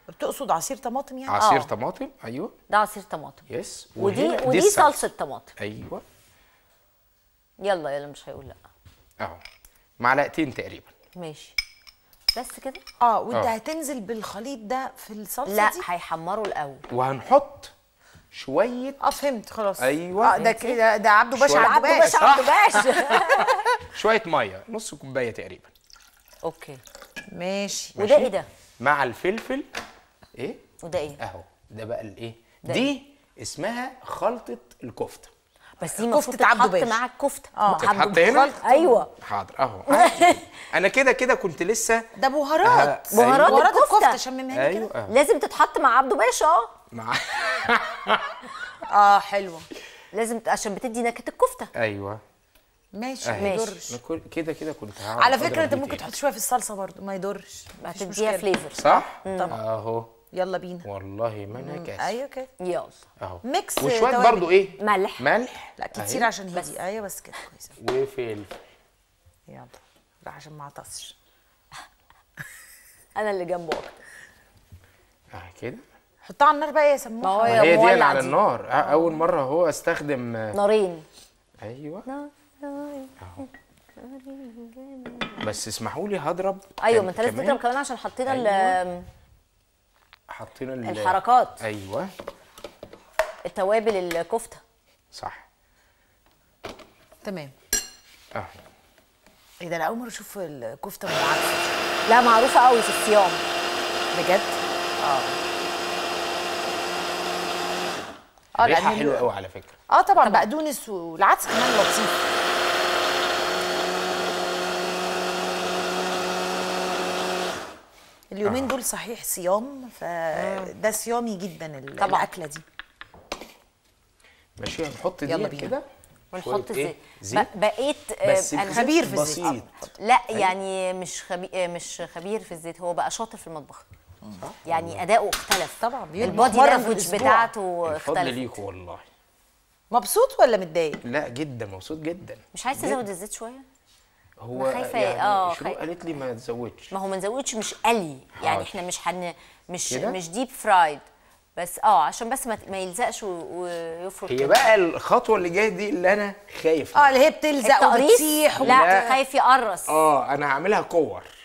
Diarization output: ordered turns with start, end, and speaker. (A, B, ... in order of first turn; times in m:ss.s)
0:00.1-0:01.4 A
0:01.3-0:02.5 B
0:01.4-0:01.7 C
0:02.7-0:03.4 C
0:03.5-0:06.0 B
0:04.0-0:05.5 C
0:07.6-0:08.6 C
0:10.0-0:10.9 B
0:11.2-0:11.6 C
0:12.3-0:12.8 C
0:13.0-0:15.8 A
0:15.5-0:16.8 C
0:16.9-0:17.7 B
0:18.3-0:19.0 B
0:19.0-0:22.2 A
0:19.8-0:20.4 B
0:20.4-0:20.8 C
0:21.3-0:23.2 B
0:21.5-0:23.7 C
0:23.8-0:25.7 B
0:26.4-0:26.8 C
0:27.3-0:28.0 A
0:28.0-0:28.5 C
0:28.0-0:29.7 B
0:30.4-0:30.6 B
0:30.8-0:31.2 C
0:31.2-0:35.3 B
0:32.6-0:32.9 C
0:35.8-0:39.1 C
0:35.9-0:37.0 A
0:37.6-0:39.0 A
0:37.7-0:38.6 B
0:39.2-0:42.0 B
0:39.9-0:40.4 C
0:42.2-0:44.9 A
0:42.6-0:43.7 B
0:43.1-0:44.2 C
0:44.5-0:45.1 B
0:45.1-0:46.7 C
0:46.9-0:48.5 B
0:48.9-0:49.7 A
0:50.1-0:51.7 C
0:51.8-0:52.2 B
0:52.9-0:54.0 A
0:53.2-0:56.1 B
0:53.4-0:53.8 C
0:55.2-0:58.5 A
0:57.8-0:59.6 C
0:58.8-1:00.1 B
0:59.2-0:59.6 A
1:00.3-1:00.9 A
1:00.8-1:02.2 B
1:01.5-1:02.5 A
1:02.6-1:03.0 C
1:03.2-1:06.3 B
1:03.4-1:04.5 A
1:04.8-1:05.2 C
1:05.8-1:07.7 A
1:07.8-1:08.6 B
1:09.5-1:11.2 A
1:13.2-1:14.0 C
1:15.3-1:15.8 B
1:16.2-1:17.8 A
1:17.2-1:18.4 C
1:17.5-1:20.6 B
1:20.5-1:21.0 C
1:21.6-1:22.0 B
1:22.1-1:25.4 C
1:25.4-1:27.6 B
1:26.8-1:29.1 C
1:28.3-1:28.8 B
1:30.3-1:32.1 B
1:30.8-1:31.6 C
1:33.4-1:34.6 C
1:35.1-1:35.5 B
1:37.2-1:37.5 A
1:39.6-1:41.8 A
1:42.1-1:43.4 C
1:44.2-1:44.6 C
1:45.0-1:45.3 A
1:48.6-1:49.3 A
1:48.6-1:49.8 B
1:49.9-1:52.2 A
1:50.2-1:50.4 C
1:58.3-2:02.6 A
1:58.4-1:58.7 B
2:00.3-2:00.7 C
2:02.0-2:02.3 C
2:04.6-2:07.5 B
2:05.2-2:05.8 A
2:06.3-2:08.9 C
2:08.2-2:09.7 B
2:08.6-2:09.9 A
2:10.0-2:13.8 C
2:14.4-2:15.0 B
2:14.6-2:18.5 C
2:15.8-2:17.5 A
2:16.2-2:19.1 B
2:19.9-2:21.0 A
2:21.0-2:23.0 B
2:22.5-2:23.6 C
2:24.4-2:26.9 B
2:24.6-2:25.8 C
2:26.9-2:31.0 C
2:28.4-2:28.8 B
2:29.9-2:30.2 B
2:31.6-2:34.7 C
2:34.3-2:37.1 B
2:36.9-2:39.1 A
2:37.6-2:39.9 C
2:38.6-2:39.1 B
2:39.9-2:41.3 B